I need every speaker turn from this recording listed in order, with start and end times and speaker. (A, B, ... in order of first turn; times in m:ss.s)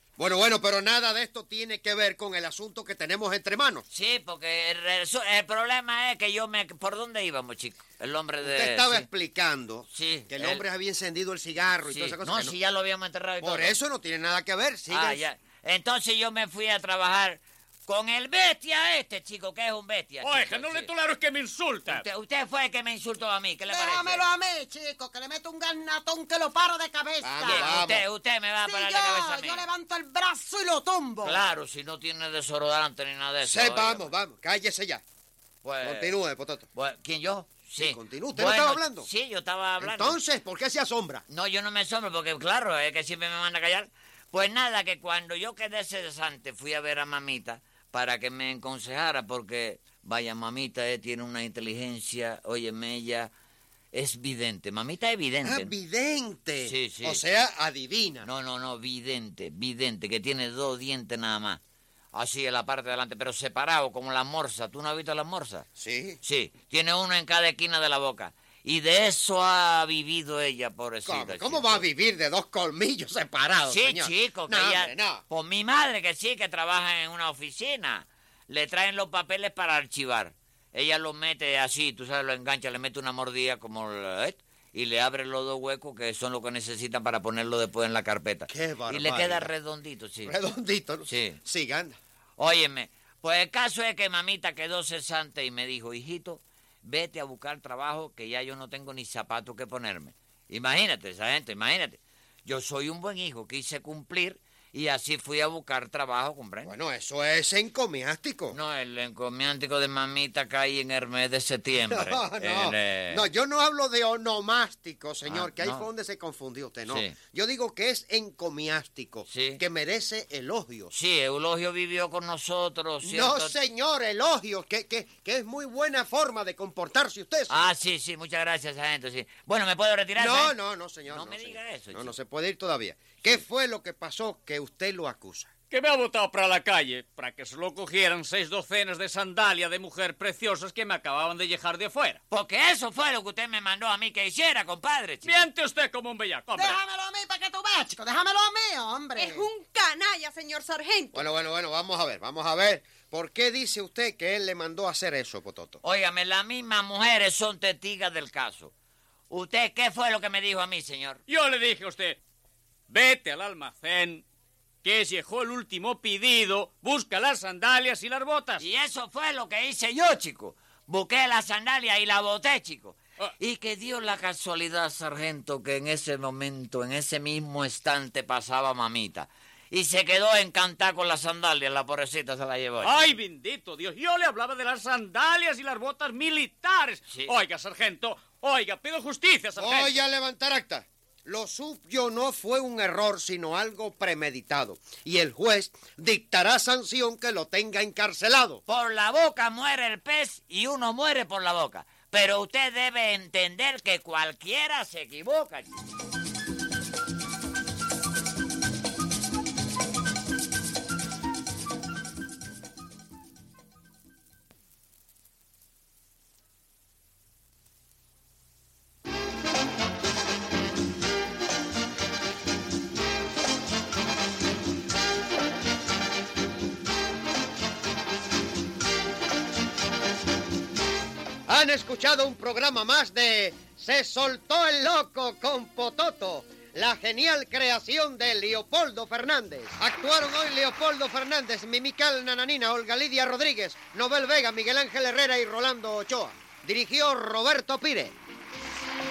0:00.2-0:03.9 A
0:03.9-0:09.1 B
0:08.4-0:12.6 A
0:09.9-0:10.6 B
0:11.9-0:13.8 B
0:13.4-0:15.2 A
0:14.9-0:20.9 B
0:20.2-0:22.0 C
0:21.9-0:24.2 B
0:23.7-0:27.8 D
0:27.2-0:28.0 A
0:27.4-0:29.7 B
0:28.6-0:31.5 D
0:31.2-0:34.1 B
0:33.4-0:35.0 A
0:35.6-0:36.2 B
0:35.8-0:36.7 A
0:36.8-0:40.2 B
0:37.8-0:39.1 A
0:39.8-0:41.2 A
0:41.3-0:53.3 B
0:53.9-0:55.7 B
0:55.4-0:58.3 A
0:56.6-0:57.2 B
0:58.2-1:01.6 B
1:02.1-1:05.7 B
1:05.8-1:06.2 A
1:06.2-1:11.9 B
1:11.0-1:15.2 A
1:13.6-1:30.4 B
1:28.5-1:29.5 A
1:30.2-1:32.0 A
1:31.1-1:31.4 B
1:32.4-1:46.8 B
1:46.7-1:48.6 A
1:48.5-1:53.3 B
1:51.9-2:00.9 A
1:55.2-1:55.9 B
1:56.9-1:57.2 B
1:59.3-1:59.6 B
2:00.9-2:03.6 B
2:03.0-2:07.7 A
2:07.5-2:10.6 B
2:10.2-2:15.5 A
2:11.1-2:12.1 B
2:15.7-2:22.2 C
2:22.3-2:25.5 B
2:25.2-2:26.8 C
2:26.5-2:29.5 D
2:29.2-2:31.3 E
2:31.1-2:35.8 A
2:35.8-2:38.7 B
2:39.3-2:41.2 B
2:41.3-2:42.2 C
2:42.9-2:44.2 C
2:44.8-2:48.7 C
2:48.6-3:03.2 B
3:02.8-3:10.0 C
3:09.6-3:18.6 A
3:18.7-3:25.7 B
3:51.5-4:08.2 A